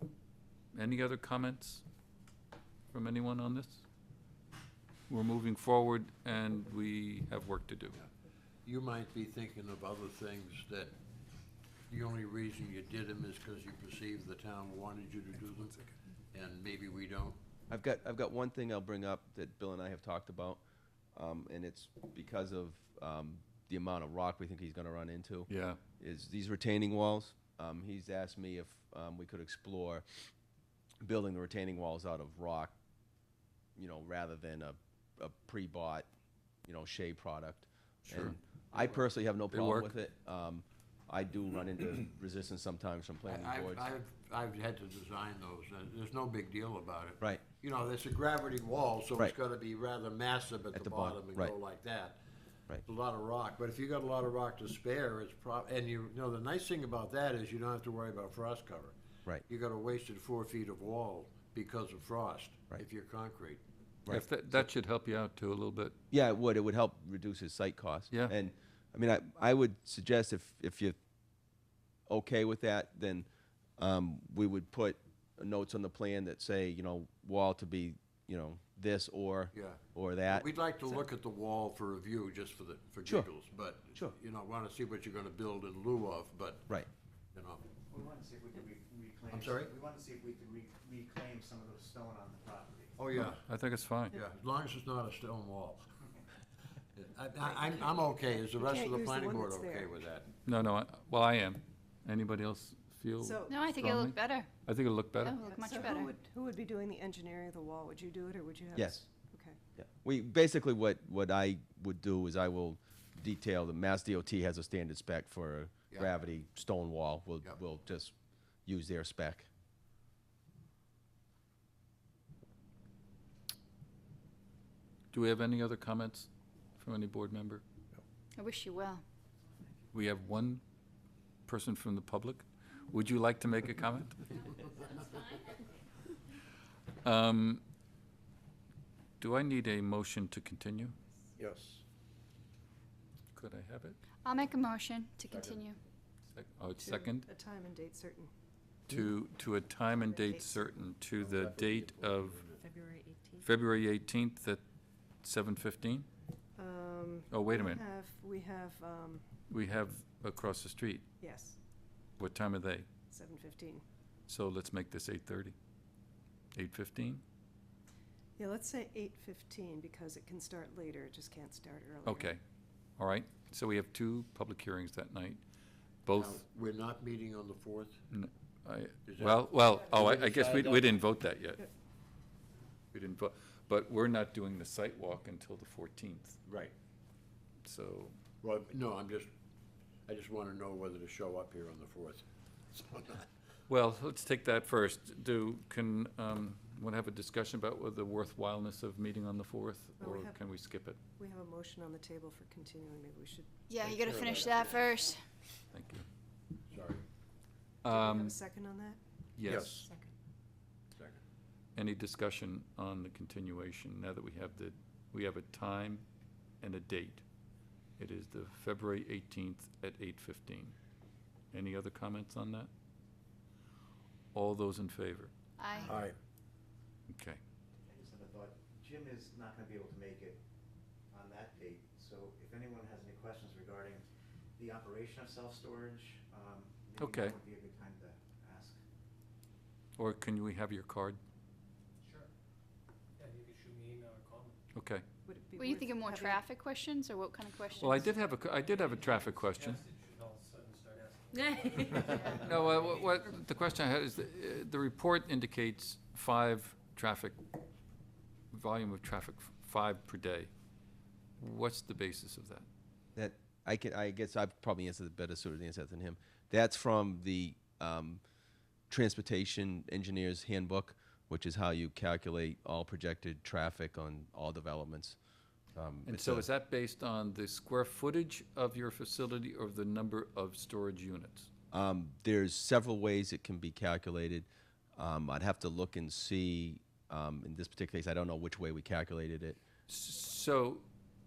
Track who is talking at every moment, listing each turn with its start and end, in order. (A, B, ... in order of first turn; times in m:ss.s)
0:00.7-0:01.8 A
0:02.9-0:03.8 A
0:05.1-0:08.0 A
0:08.6-0:11.0 B
0:11.9-0:17.4 B
0:17.7-0:20.6 C
0:21.2-0:30.0 C
0:25.5-0:25.8 A
0:31.0-0:32.7 C
0:33.8-0:36.1 C
0:36.7-0:44.0 C
0:38.1-0:39.9 A
0:43.3-0:52.2 B
0:50.7-0:51.6 C
0:52.8-0:59.0 B
0:59.5-1:03.6 B
1:04.0-1:04.3 C
1:04.1-1:06.0 A
1:06.1-1:11.0 C
1:12.1-1:13.3 C
1:13.8-1:20.5 C
1:19.5-1:26.8 B
1:27.3-1:27.7 B
1:27.9-1:33.0 D
1:29.3-1:29.7 B
1:33.0-1:33.4 B
1:33.4-1:34.2 A
1:34.1-1:35.9 B
1:36.9-1:40.3 B
1:37.7-1:40.0 E
1:40.5-1:45.4 A
1:43.2-1:43.6 E
1:43.5-1:44.5 F
1:45.2-1:46.1 F
1:45.4-1:49.6 E
1:48.8-1:49.0 C
1:49.8-1:58.1 C
1:58.7-1:59.5 C
2:05.1-2:07.6 A
2:08.4-2:09.0 F
2:09.9-2:10.6 A
2:11.5-2:14.4 A
2:17.0-2:17.6 A
2:19.2-2:21.0 A
2:21.4-2:21.8 B
2:23.3-2:24.0 A
2:24.2-2:25.8 F
2:25.3-2:25.6 B
2:26.4-2:27.3 A
2:26.8-2:28.3 E
2:28.9-2:32.4 A
2:29.9-2:30.7 E
2:31.2-2:32.6 B
2:32.6-2:33.5 G
2:33.4-2:34.6 A
2:35.2-2:36.1 A
2:36.6-2:39.2 E
2:37.3-2:37.8 A
2:39.5-2:41.1 A
2:41.2-2:41.6 E
2:42.2-2:42.9 A
2:43.1-2:43.8 E
2:44.3-2:45.6 A
2:46.5-2:47.2 A
2:48.4-2:52.4 E
2:52.0-2:52.4 A
2:53.0-2:55.4 A
2:56.0-2:56.4 A
2:56.2-2:58.0 B
2:58.1-3:01.7 A
2:59.1-3:01.0 B
3:02.9-3:06.4 A
3:06.5-3:06.7 B
3:07.6-3:08.2 A
3:08.4-3:09.3 B
3:10.1-3:13.3 B
3:13.7-3:21.0 A
3:20.0-3:20.4 E
3:21.2-3:23.5 E
3:23.7-3:25.2 F
3:23.8-3:25.1 B
3:25.7-3:26.0 A
3:26.7-3:27.0 B
3:27.8-3:28.4 A
3:27.9-3:29.0 E
3:29.4-3:29.9 A
3:29.5-3:29.8 B
3:29.8-3:30.1 G
3:31.0-3:31.2 B
3:31.8-3:36.0 A
3:36.6-3:37.2 A
3:38.0-3:40.8 A
3:41.5-3:42.7 A
3:44.3-3:45.3 A
3:45.6-3:46.0 F
3:45.8-3:46.1 D
3:45.8-3:46.2 B
3:47.1-3:47.4 A
3:47.9-3:50.4 D
3:51.1-3:54.1 D
3:54.6-3:58.8 D
3:57.0-3:57.4 A
4:00.0-4:01.2 A
4:02.0-4:02.3 H
4:03.2-4:04.6 H
4:04.7-4:05.0 A
4:05.3-4:06.4 E
4:05.6-4:08.1 F
4:07.8-4:09.8 A
4:08.2-4:13.2 H
4:11.3-4:12.0 G
4:12.0-4:12.5 F
4:12.0-4:17.4 A
4:18.5-4:20.5 A
4:21.4-4:22.7 A
4:23.2-4:28.2 C
4:28.9-4:35.2 C
4:35.8-4:36.5 C
4:36.0-4:41.5 A
4:41.7-4:49.6 C
4:49.9-4:50.9 A